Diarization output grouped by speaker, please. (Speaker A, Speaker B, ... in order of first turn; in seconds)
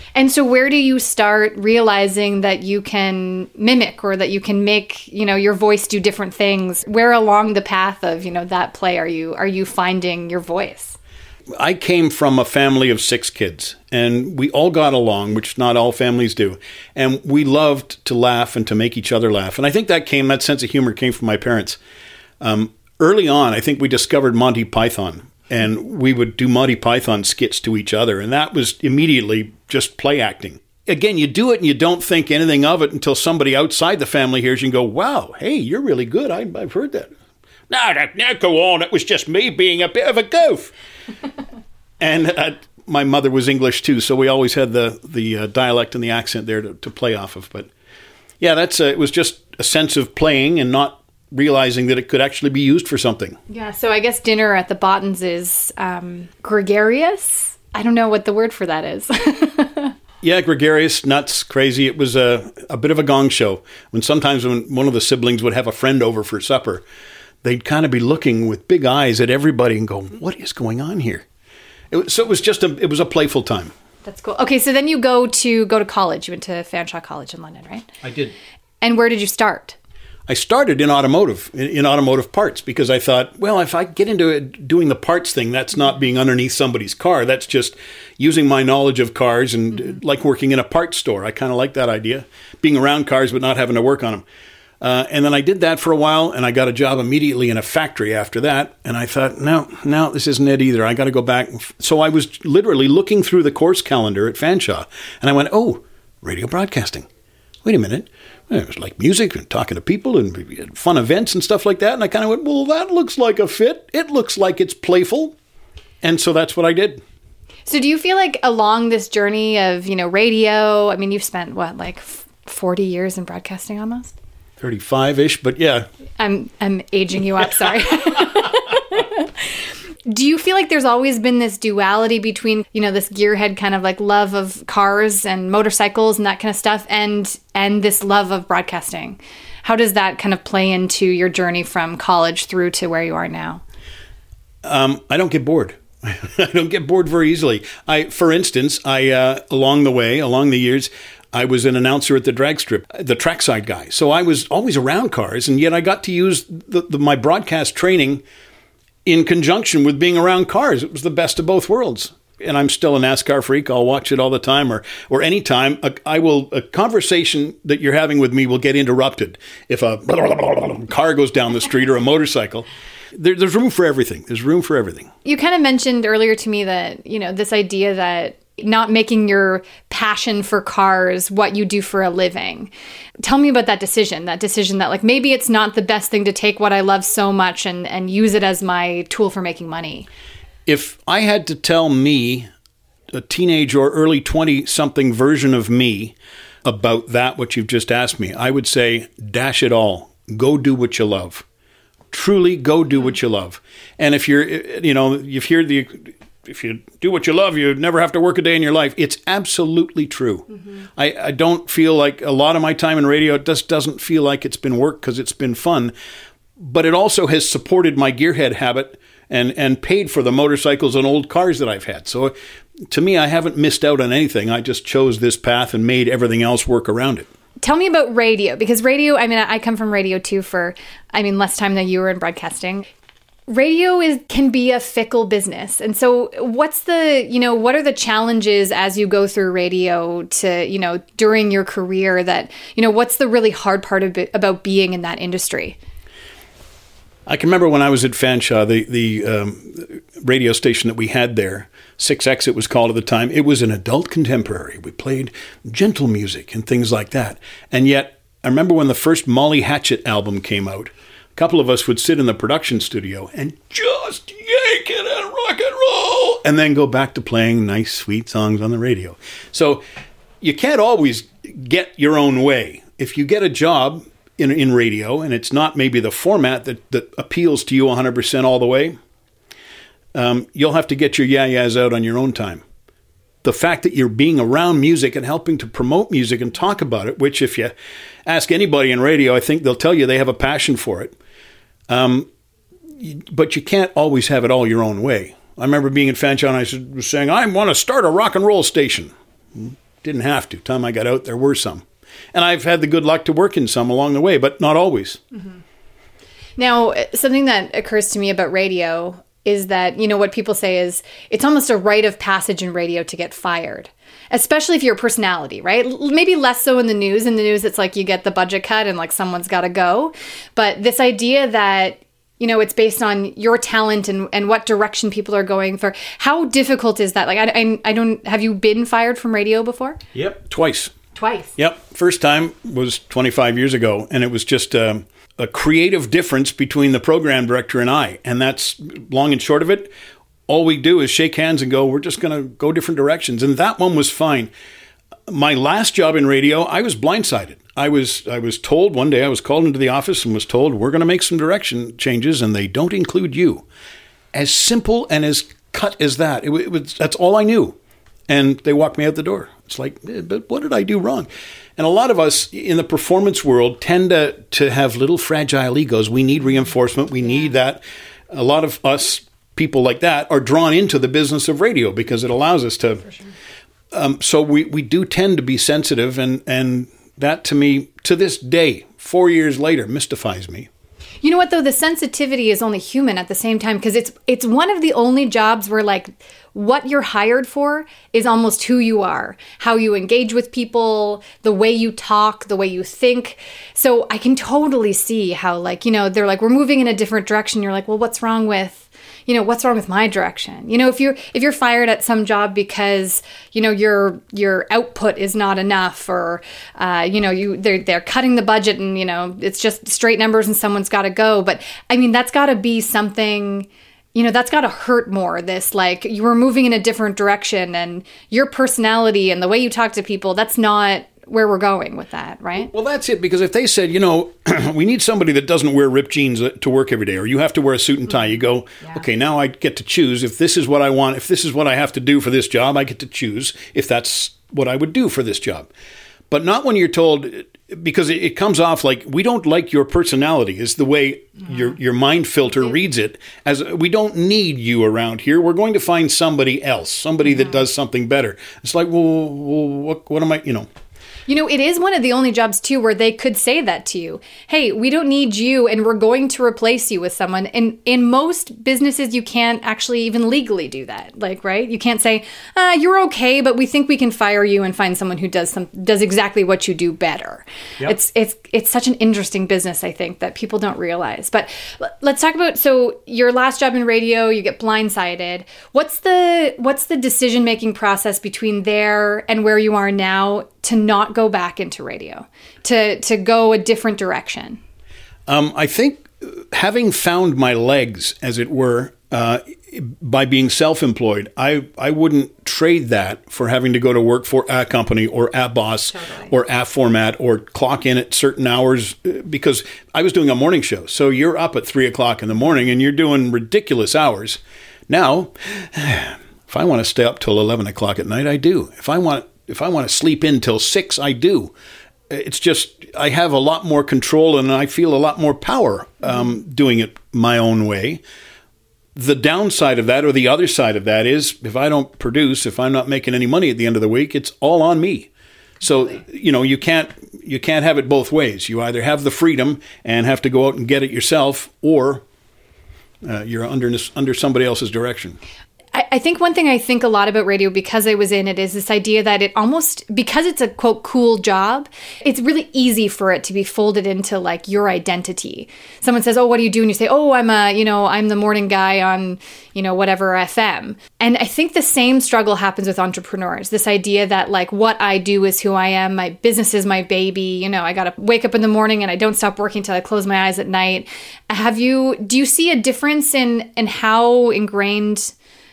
Speaker A: 0.1-11.0, 53.5-59.9, 74.0-77.9, 78.8-79.8, 117.7-124.1, 126.2-129.5, 130.1-143.6, 175.2-182.7, 183.2-190.1, 227.6-232.8, 233.5-245.8, 306.6-330.0, 331.1-331.5, 381.2-422.7, 451.3-484.6, 535.7-565.1
Speaker B: 11.6-21.8, 22.4-37.1, 37.7-40.7, 42.0-47.7, 48.4-53.4, 60.2-66.8, 67.4-71.2, 71.9-73.7, 78.0-78.3, 80.3-94.2, 94.8-107.0, 107.6-115.3, 116.0-117.0, 124.6-125.9, 144.6-158.2, 159.1-175.1, 190.7-192.5, 193.1-201.4, 202.1-215.9, 216.6-222.3, 222.9-227.3, 247.2-269.8, 270.4-279.0, 280.1-282.6, 283.4-287.7, 288.2-291.1, 291.9-292.3, 293.0-305.2, 330.1-330.9, 331.6-339.9, 340.5-344.5, 345.3-353.6, 354.3-357.8, 358.3-373.0, 373.9-380.7, 422.6-435.7, 436.3-450.7, 485.3-511.5, 512.1-518.0, 518.9-525.1, 525.6-532.0, 533.0-535.2